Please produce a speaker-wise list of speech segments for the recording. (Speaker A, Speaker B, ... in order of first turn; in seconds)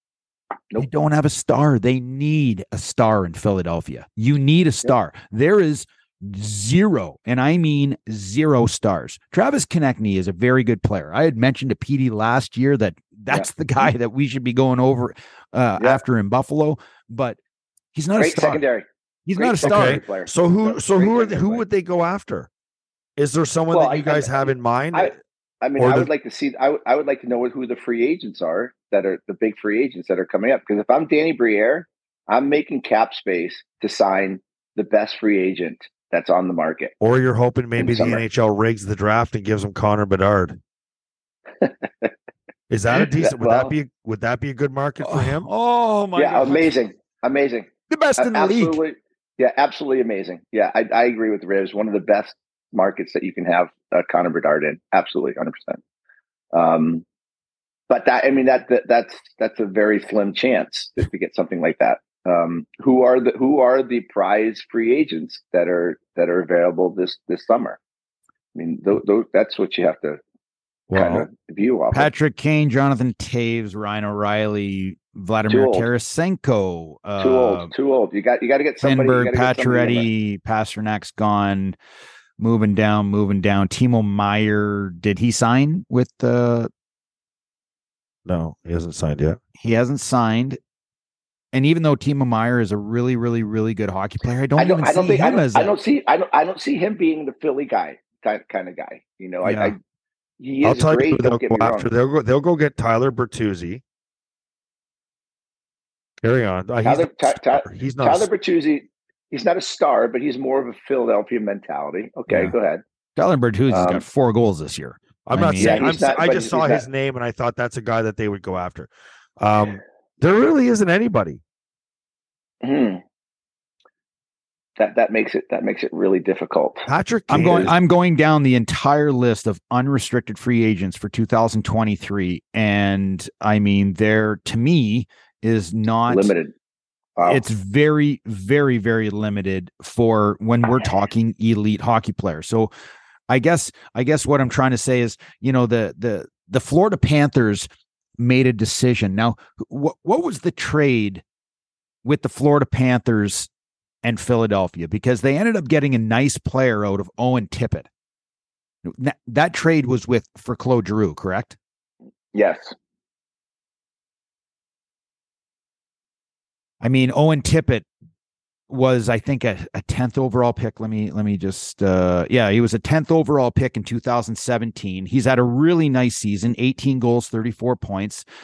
Speaker A: 0.8-17.4, 17.9-18.6, 19.3-20.0, 45.0-46.7, 47.9-48.8, 71.9-77.7, 78.8-81.8, 82.4-86.7, 89.6-90.6, 91.5-95.7, 99.4-99.8, 112.3-112.5, 113.2-115.9, 127.3-136.3, 137.2-142.7, 143.3-151.2, 152.0-153.5, 154.0-157.9, 158.8-161.6, 166.8-167.9, 168.7-178.2
Speaker B: 18.2-21.6, 23.7-36.9, 37.8-38.2, 41.6-42.1, 43.0-43.7, 46.2-55.8, 56.5-57.0, 57.9-67.8, 68.5-70.2, 70.9-72.1, 75.5-75.9, 77.2-80.1, 94.6-99.8, 100.4-101.9, 106.8-112.8, 113.7-114.0, 115.6-116.8, 122.6-123.0, 124.8-126.9, 136.1-136.5, 137.2-137.4, 162.3-162.8
Speaker C: 19.6-22.5, 23.2-25.1, 25.8-26.1, 37.0-40.6, 42.7-45.5, 70.9-71.3, 88.3-89.4, 100.6-103.8, 106.2-108.3, 115.3-121.4, 126.9-127.7